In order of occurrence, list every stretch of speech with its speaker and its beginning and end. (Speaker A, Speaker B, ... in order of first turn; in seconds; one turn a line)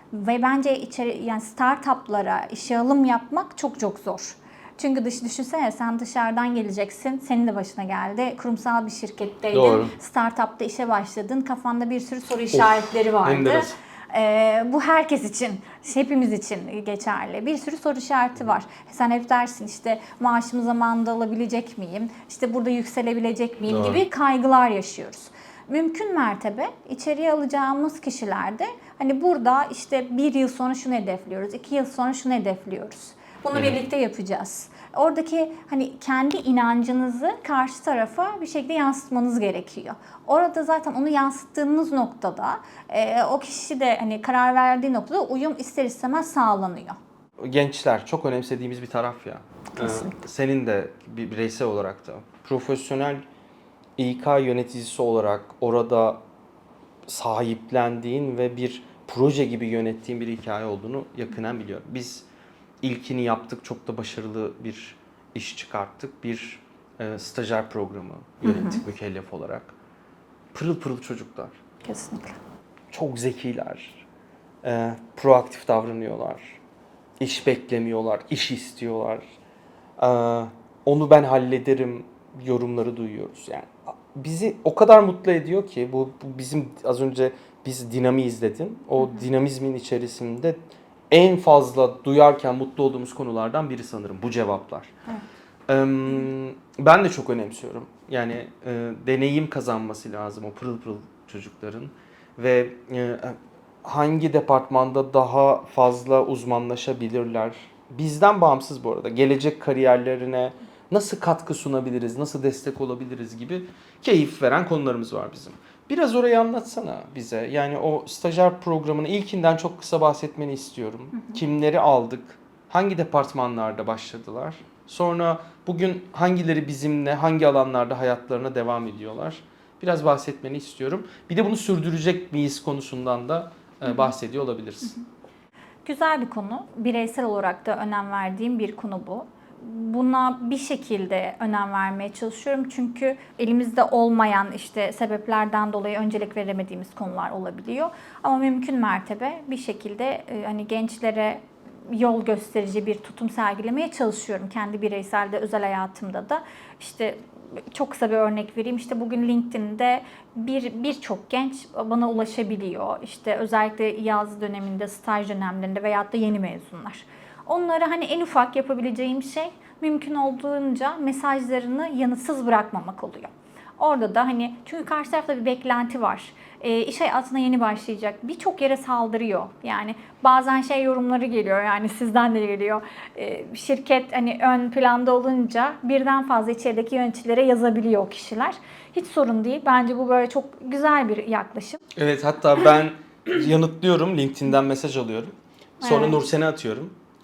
Speaker A: 0.1-47.0
Speaker B: 9.5-9.9
Speaker B: 12.5-13.7
Speaker B: 23.7-24.0
Speaker B: 47.4-53.2
Speaker A: 49.8-50.1
Speaker B: 54.0-56.2
Speaker B: 57.1-62.2
Speaker B: 62.8-69.7
Speaker A: 68.4-68.8
Speaker B: 70.5-71.6
Speaker A: 71.8-72.4
Speaker B: 72.9-74.0
Speaker B: 74.6-76.6
Speaker B: 77.2-79.2
Speaker B: 80.0-90.6
Speaker A: 89.0-89.2
Speaker B: 91.1-94.9
Speaker B: 95.7-134.9
Speaker A: 121.1-121.4
Speaker A: 133.8-134.1
Speaker A: 135.8-191.8
Speaker B: 191.9-196.9
Speaker A: 195.8-196.2